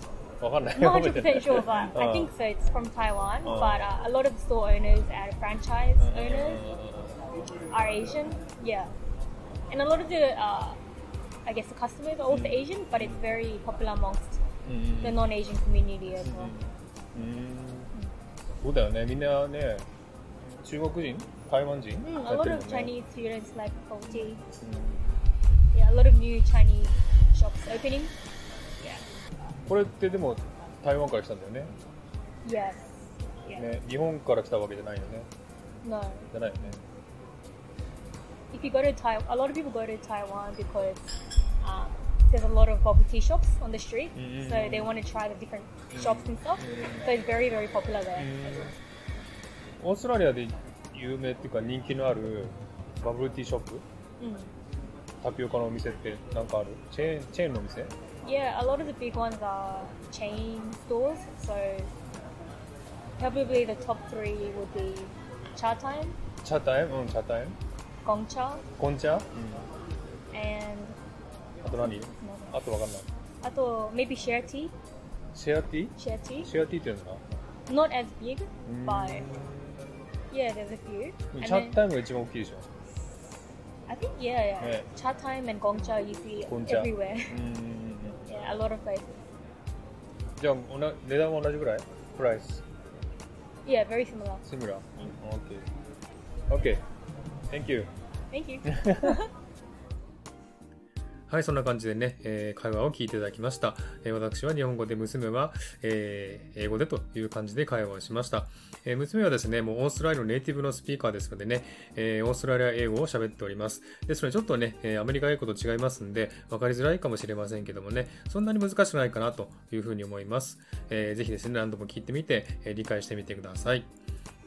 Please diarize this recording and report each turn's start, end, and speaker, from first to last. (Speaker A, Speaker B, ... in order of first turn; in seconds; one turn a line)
Speaker A: 0.4-2.3
Speaker B: 0.7-6.6
Speaker A: 3.4-3.9
Speaker A: 6.0-7.2
Speaker B: 7.7-8.9
Speaker B: 9.7-10.8
Speaker B: 11.4-14.4
Speaker A: 12.3-13.2
Speaker A: 14.6-15.2
Speaker B: 15.0-16.5
Speaker A: 16.2-17.9
Speaker A: 18.6-19.9
Speaker A: 20.6-22.9
Speaker B: 22.0-24.4
Speaker A: 24.6-25.2
Speaker B: 25.7-28.1
Speaker A: 29.6-31.7
Speaker B: 32.4-33.6
Speaker A: 33.5-35.3
Speaker B: 35.8-36.3
Speaker A: 36.3-36.8
Speaker B: 38.5-48.3
Speaker A: 44.1-45.0
Speaker A: 45.9-47.1
Speaker A: 48.2-48.7
Speaker A: 49.8-53.8
Speaker B: 54.2-54.5
Speaker A: 55.2-57.9
Speaker B: 58.2-61.9
Speaker B: 63.2-66.2
Speaker A: 66.4-67.6
Speaker B: 68.0-68.7
Speaker A: 68.8-69.7
Speaker B: 70.3-71.0
Speaker A: 71.6-73.1
Speaker B: 71.8-72.5
Speaker B: 73.4-74.7
Speaker A: 75.3-77.2
Speaker B: 76.0-76.5
Speaker B: 77.7-79.3
Speaker A: 78.7-79.9
Speaker B: 80.3-81.8
Speaker A: 81.3-82.7
Speaker B: 83.9-87.3
Speaker A: 84.6-84.9
Speaker A: 86.5-88.2
Speaker B: 88.3-89.2
Speaker A: 90.4-92.6
Speaker B: 93.6-94.4
Speaker A: 94.5-95.7
Speaker A: 96.5-96.8
Speaker A: 97.5-97.9
Speaker B: 98.3-99.3
Speaker A: 98.7-99.2
Speaker C: 101.3-123.9